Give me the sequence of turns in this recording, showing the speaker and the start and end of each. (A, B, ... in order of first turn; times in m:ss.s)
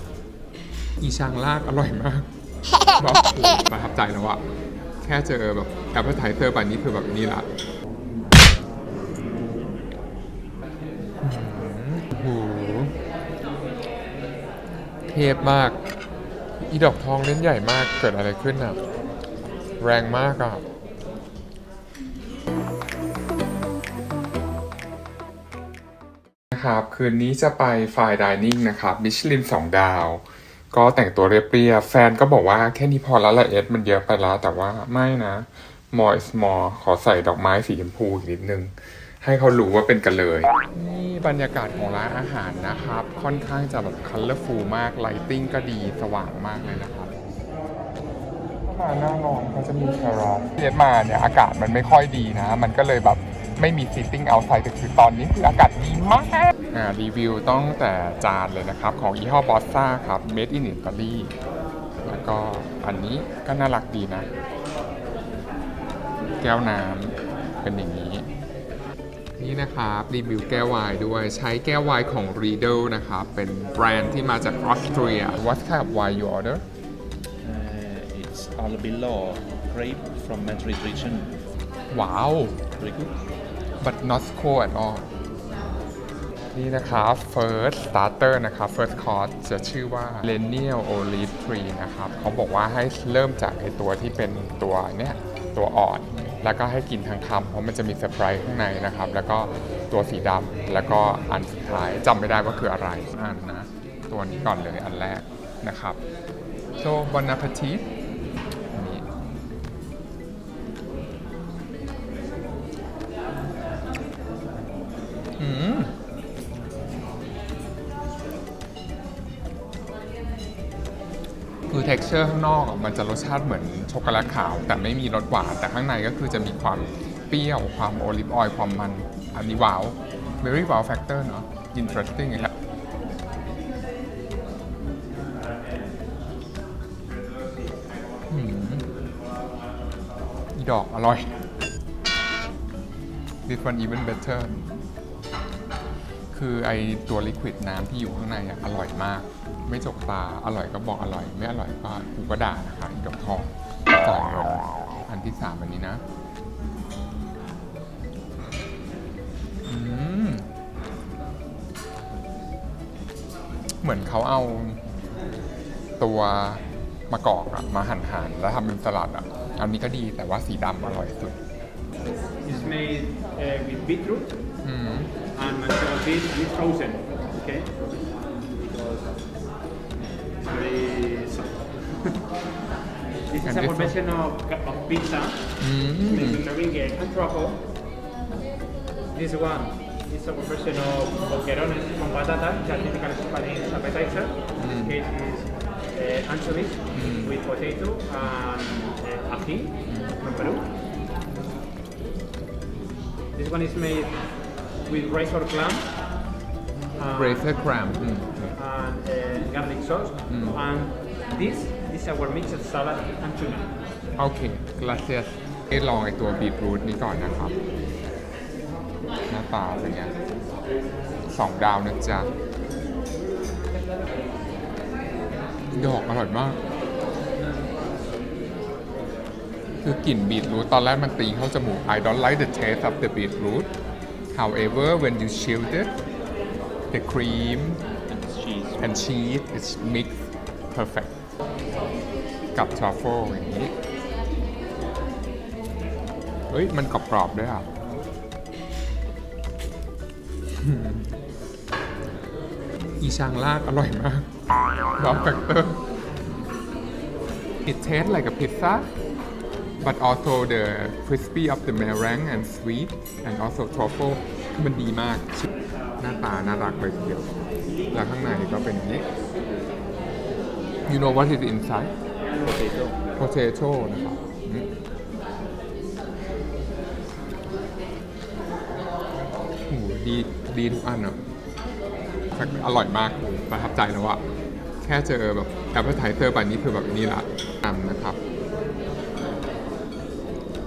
0:01.0-0:02.3 A
0:03.0-0:04.4 A
0:05.0-0:07.5 A
0:11.2-0:13.0 A
0:15.1-0:15.8 A
0:16.6-0:18.8 A
0:19.8-0:20.6 A
0:26.5-0:47.1 A
0:48.7-1:01.3 A
1:02.0-1:04.3 A
1:06.4-1:08.3 A
1:09.4-1:16.6 A
1:17.4-1:21.3 B
1:21.9-1:22.6 A
1:22.8-1:23.1 B
1:23.8-1:25.1 A
1:26.5-1:46.0 A
1:46.8-1:47.9 A
1:48.7-1:49.1 A
1:55.4-1:55.9 A
2:01.7-2:12.5 A
2:11.8-2:12.5 B
2:18.3-2:18.9 A
2:20.5-2:21.4 A
2:23.5-2:24.6 A
2:26.3-2:36.0 A
2:39.6-2:40.5 A
2:43.8-2:44.8 A
2:46.0-2:51.4 A
2:52.4-2:54.4 C
2:54.6-2:55.1 A
2:55.3-2:57.7 C
2:58.5-2:59.1 C
3:00.4-3:02.2 C
3:03.3-3:07.6 C
3:03.4-3:04.0 A
3:05.6-3:06.4 A
3:09.1-3:20.7 C
3:14.6-3:15.0 A
3:16.9-3:17.4 A
3:19.9-3:20.1 A
3:23.3-3:26.0 C
3:27.0-3:27.6 C
3:27.2-3:28.6 A
3:28.5-3:33.8 C
3:30.3-3:30.6 A
3:34.2-3:37.6 A
3:39.3-3:40.2 A
3:41.3-3:42.3 A
3:45.7-3:46.6 A
3:49.8-3:53.7 A
3:54.3-3:56.0 A
3:56.9-3:57.8 A
3:58.1-3:58.9 B
3:58.8-4:01.2 A
4:02.6-4:03.7 A
4:06.5-4:07.7 A
4:10.6-4:11.1 A
4:13.0-4:14.3 A
4:15.0-4:15.8 A
4:17.6-4:18.9 A
4:19.8-4:25.5 A
4:26.0-4:27.3 A
4:27.9-4:29.1 A
4:30.9-4:31.9 A
4:32.4-4:33.0 B
4:33.2-4:34.7 A
4:39.7-4:41.2 A
4:42.3-4:44.2 A
4:44.8-4:48.2 A